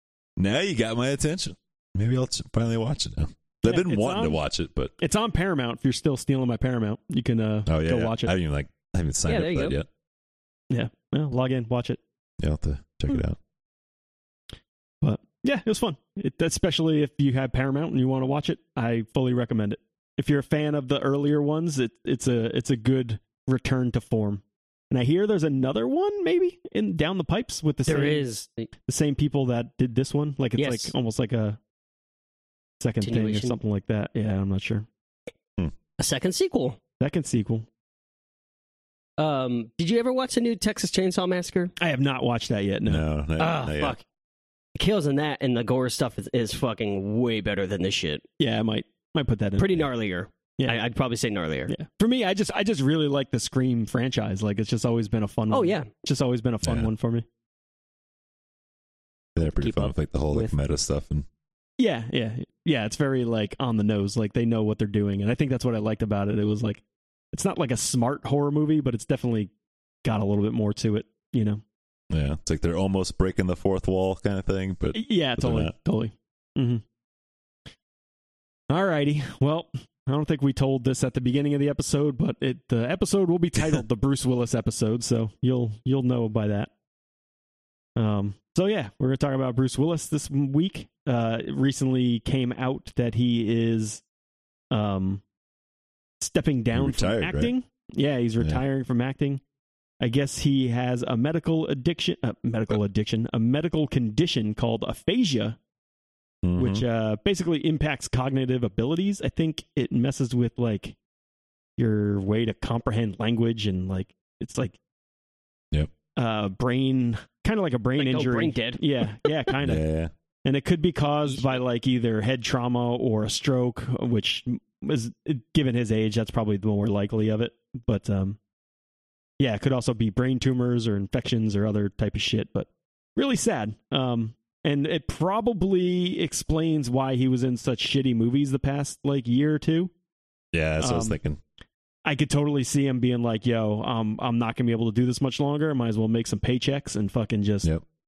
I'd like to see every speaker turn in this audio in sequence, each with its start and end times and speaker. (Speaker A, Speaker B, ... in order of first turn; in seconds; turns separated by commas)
Speaker A: 0.4-4.9, Speaker B: 3.6-4.4, Speaker B: 5.0-8.3, Speaker A: 7.7-9.9, Speaker C: 9.3-9.8, Speaker B: 10.7-12.0, Speaker A: 12.4-13.4, Speaker B: 15.0-28.2, Speaker C: 27.9-28.7, Speaker B: 28.9-31.6, Speaker C: 30.6-30.9, Speaker B: 32.8-34.9, Speaker C: 33.0-33.6, Speaker C: 36.0-36.8, Speaker B: 37.0-37.7, Speaker C: 39.2-41.7, Speaker B: 41.8-43.0, Speaker A: 42.9-44.0, Speaker C: 43.4-44.0, Speaker C: 44.8-48.2, Speaker B: 48.4-49.8, Speaker C: 49.6-51.7, Speaker B: 51.7-57.3, Speaker C: 55.5-55.9, Speaker A: 56.6-56.9, Speaker A: 59.4-61.3, Speaker C: 59.4-60.5, Speaker B: 61.8-69.5, Speaker B: 70.0-71.6, Speaker A: 72.1-75.7, Speaker B: 74.9-76.8, Speaker B: 78.7-86.7, Speaker B: 88.0-94.0, Speaker B: 94.7-95.2, Speaker B: 96.2-99.4, Speaker A: 96.7-97.5, Speaker B: 100.0-105.6, Speaker A: 106.4-106.8, Speaker B: 106.6-111.0, Speaker B: 111.8-114.8, Speaker B: 116.2-119.8, Speaker C: 118.0-119.3, Speaker A: 119.6-120.1, Speaker B: 120.5-128.4, Speaker B: 129.4-139.9, Speaker A: 140.5-141.4, Speaker B: 140.8-141.2, Speaker B: 142.1-147.7